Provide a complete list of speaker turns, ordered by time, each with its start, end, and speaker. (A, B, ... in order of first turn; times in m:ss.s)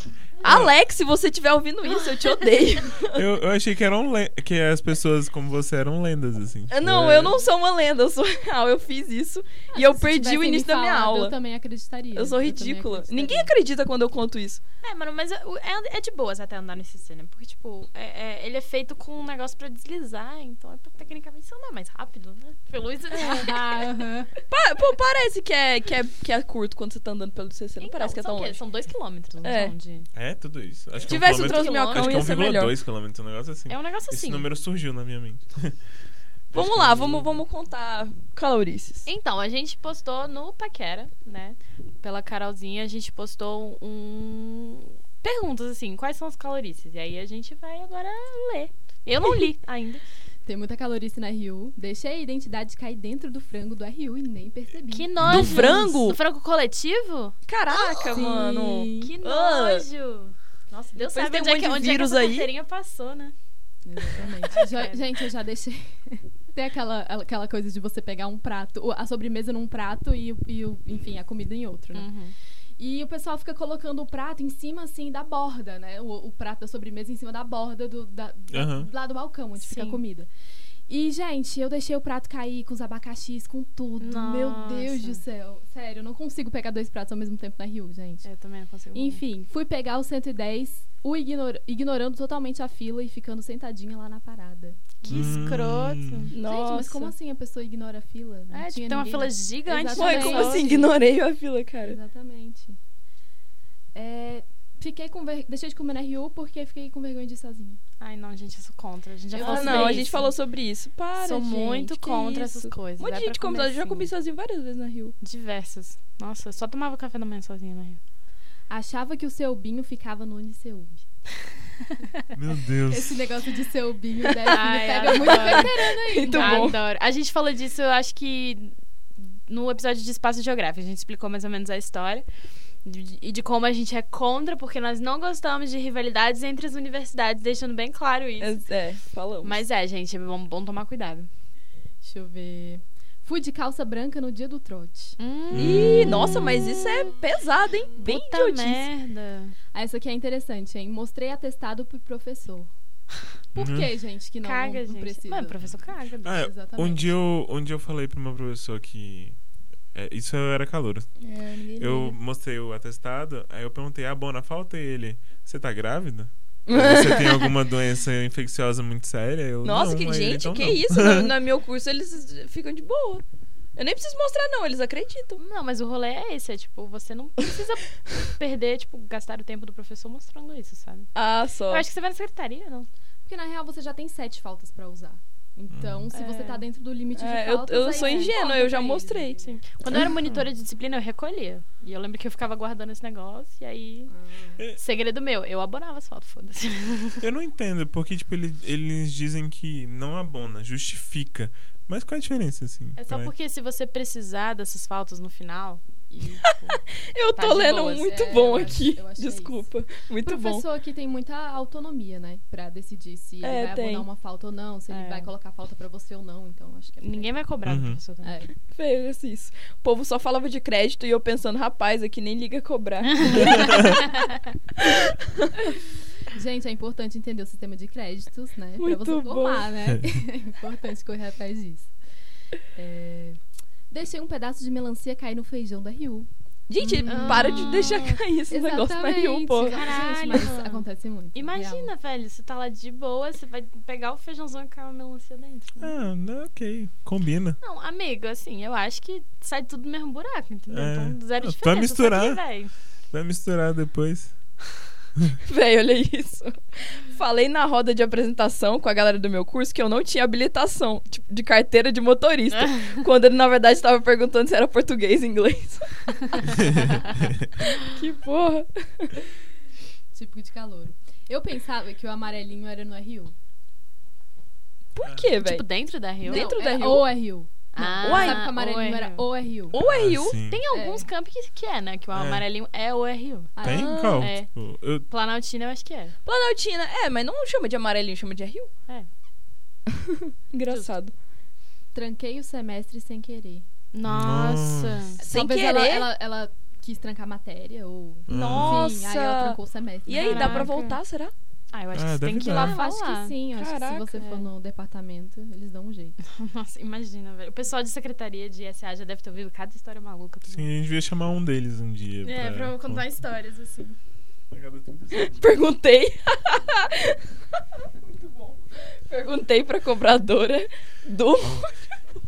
0:00.4-0:03.2 A
0:00.4-0:00.7 B
0:03.2-0:07.4 B
0:06.7-0:11.4 A
0:09.7-0:13.5 C
0:12.2-0:14.6 A
0:14.8-0:24.0 D
0:23.3-0:24.3 C
0:24.5-0:28.6 A
0:27.8-0:30.1 D
0:29.4-0:29.8 A
0:30.2-0:35.8 B
0:31.0-0:32.8 A
0:31.1-0:32.3 D
0:33.7-0:34.5 D
0:36.5-0:37.4 B
0:36.5-0:39.1 A
0:39.1-0:50.0 D
0:50.5-0:55.4 C
0:54.9-1:03.3 D
0:55.2-0:55.7 B
0:55.2-0:56.2 A
0:57.5-0:59.9 A
0:58.1-0:59.2 C
1:01.0-1:02.5 A
1:03.8-1:12.1 C
1:04.2-1:05.1 D
1:11.9-1:12.3 D
1:12.8-1:20.3 C
1:18.5-1:18.9 B
1:19.6-1:20.0 D
1:20.9-1:28.3 C
1:24.0-1:25.2 D
1:28.2-1:29.2 D
1:28.9-1:35.2 C
1:35.0-1:36.3 D
1:35.1-1:36.3 B
1:36.3-1:37.1 A
1:36.4-1:40.9 C
1:38.5-1:40.9 D
1:39.9-1:42.0 A
1:41.8-1:42.8 C
1:43.9-1:47.8 C
1:48.0-1:50.4 D
1:49.4-1:55.1 A
1:49.4-1:50.2 C
1:51.2-1:54.1 D
1:55.2-1:58.0 D
1:58.7-2:01.0 C
2:02.4-2:03.3 B
2:02.9-2:06.8 C
2:04.5-2:12.3 D
2:05.2-2:06.8 A
2:12.8-2:18.6 D
2:18.4-2:19.6 A
2:19.4-2:21.3 D
2:22.0-2:25.2 C
2:25.2-2:27.1 D
2:25.5-2:26.2 B
2:25.6-2:28.9 A
2:28.0-2:29.6 D
2:29.7-2:32.7 C
2:33.6-2:33.9 B
2:33.6-2:35.7 C
2:34.4-2:36.4 D
2:36.2-2:39.4 B
2:36.3-2:37.1 C
2:39.9-2:41.1 B
2:41.2-2:42.2 A
2:41.8-2:51.4 B
2:46.7-2:47.4 A
2:49.6-2:53.2 A
2:53.8-2:55.4 A
2:55.4-3:01.1 D
3:01.2-3:01.8 A
3:01.7-3:02.9 D
3:03.2-3:09.6 C
3:05.7-3:06.1 B
3:06.1-3:06.6 D
3:07.2-3:09.4 A
3:07.9-3:08.4 D
3:09.4-3:14.1 D
3:10.2-3:10.5 B
3:14.1-3:14.6 C
3:14.8-3:17.2 D
3:17.2-3:23.3 B
3:23.0-3:26.8 D
3:27.0-3:30.7 A
3:27.4-3:28.1 D
3:28.0-3:29.7 C
3:30.2-3:37.3 C
3:33.4-3:34.1 A
3:34.9-3:35.3 D
3:37.0-3:38.4 D
3:37.6-3:38.0 B
3:38.2-3:38.5 C
3:38.7-3:43.7 A
3:43.3-3:44.1 D
3:46.3-3:51.9 C
3:48.8-3:49.7 A
3:52.8-3:53.4 C
3:53.9-3:56.3 C
3:56.7-3:59.9 A
3:57.0-3:57.9 C
3:57.0-3:58.2 D
3:58.5-4:01.9 C
3:59.6-4:05.9 D
4:05.8-4:07.6 B
4:07.6-4:12.7 D
4:10.7-4:12.4 B
4:13.1-4:14.6 B
4:15.4-4:26.4 A
4:27.6-4:29.2 A
4:30.1-4:33.3 C
4:35.0-4:35.6 A
4:35.0-4:35.3 B
4:35.4-4:36.6 D
4:36.2-4:37.1 A
4:36.2-4:39.8 C
4:37.7-4:39.3 D
4:38.0-4:38.4 A
4:39.7-4:40.4 A
4:39.8-4:40.6 B
4:40.5-4:44.5 D
4:40.7-4:41.1 C
4:42.1-4:42.4 B
4:43.6-4:44.0 C
4:43.6-4:45.1 B
4:43.6-4:44.3 A
4:45.1-4:46.2 D
4:46.2-4:48.7 A
4:50.1-4:51.1 A
4:50.7-4:51.0 D
4:51.9-4:53.6 C
4:53.9-4:55.2 D
4:54.0-4:55.1 B
4:55.2-5:00.7 C
4:55.2-4:56.1 A
4:58.3-4:58.9 B
4:58.3-4:58.8 D
4:58.4-5:01.3 A
5:00.1-5:01.0 D
5:01.7-5:03.4 D
5:01.9-5:02.8 B
5:02.5-5:06.2 C
5:03.5-5:04.2 A
5:04.2-5:04.5 D
5:06.3-5:10.7 D
5:10.5-5:13.1 B
5:12.2-5:14.0 D
5:14.5-5:15.6 B
5:15.1-5:21.7 A